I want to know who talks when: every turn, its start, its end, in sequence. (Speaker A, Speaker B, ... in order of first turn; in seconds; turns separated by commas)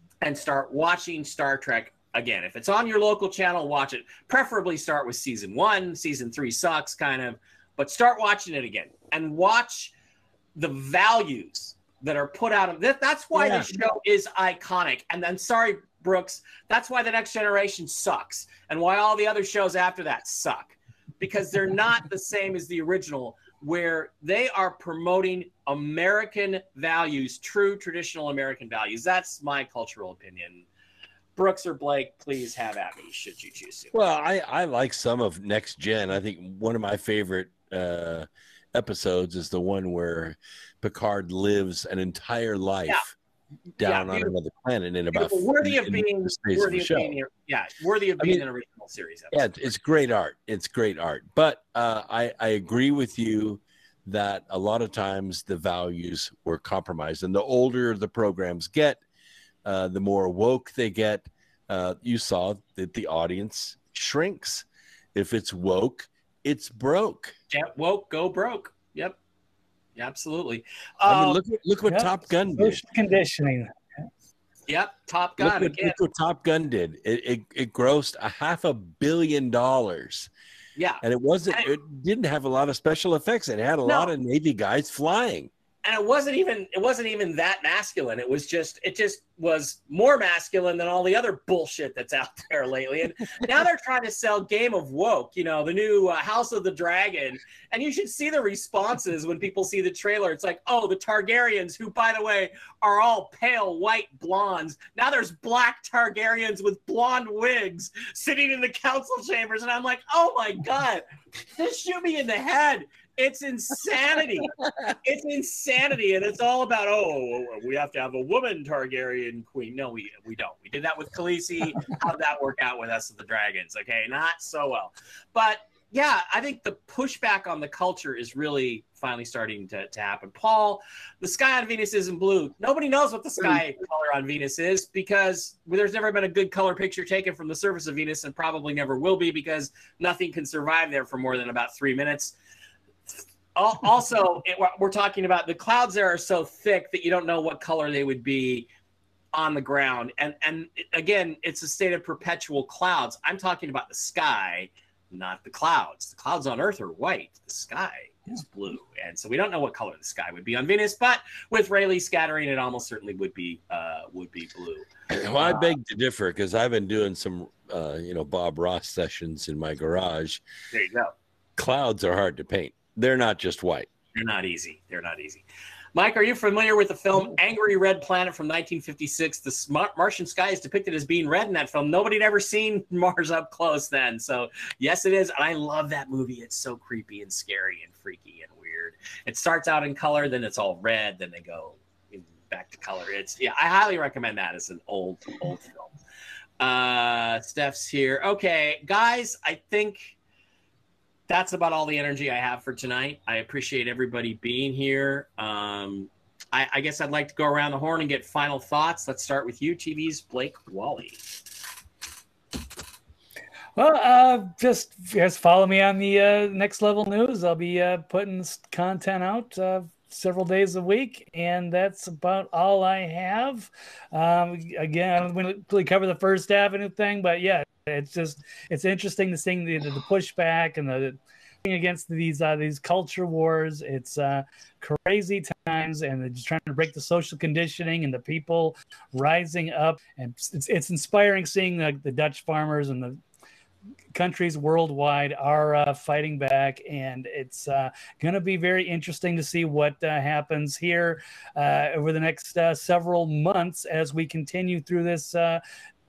Speaker A: 0.2-9.9, Speaker A: 10.6-30.6, Speaker B: 13.3-13.7, Speaker A: 31.4-33.9, Speaker B: 33.9-43.1, Speaker B: 43.8-47.1, Speaker A: 43.8-44.3, Speaker A: 45.1-49.5, Speaker B: 49.3-59.0, Speaker B: 59.6-67.3, Speaker A: 67.5-69.2, Speaker A: 70.0-71.4, Speaker B: 71.1-72.8, Speaker C: 71.9-73.7, Speaker A: 74.7-76.0, Speaker B: 75.4-80.3, Speaker A: 80.8-81.7, Speaker B: 81.0-85.5, Speaker A: 83.8-84.1, Speaker A: 85.8-111.0, Speaker A: 111.6-142.3, Speaker A: 143.6-148.7, Speaker A: 149.3-164.9, Speaker B: 165.1-170.4, Speaker A: 165.4-165.7, Speaker A: 170.7-171.1, Speaker B: 171.6-173.9, Speaker A: 174.1-195.9, Speaker A: 196.6-200.1, Speaker A: 201.3-211.2, Speaker C: 213.8-243.2, Speaker C: 244.1-255.6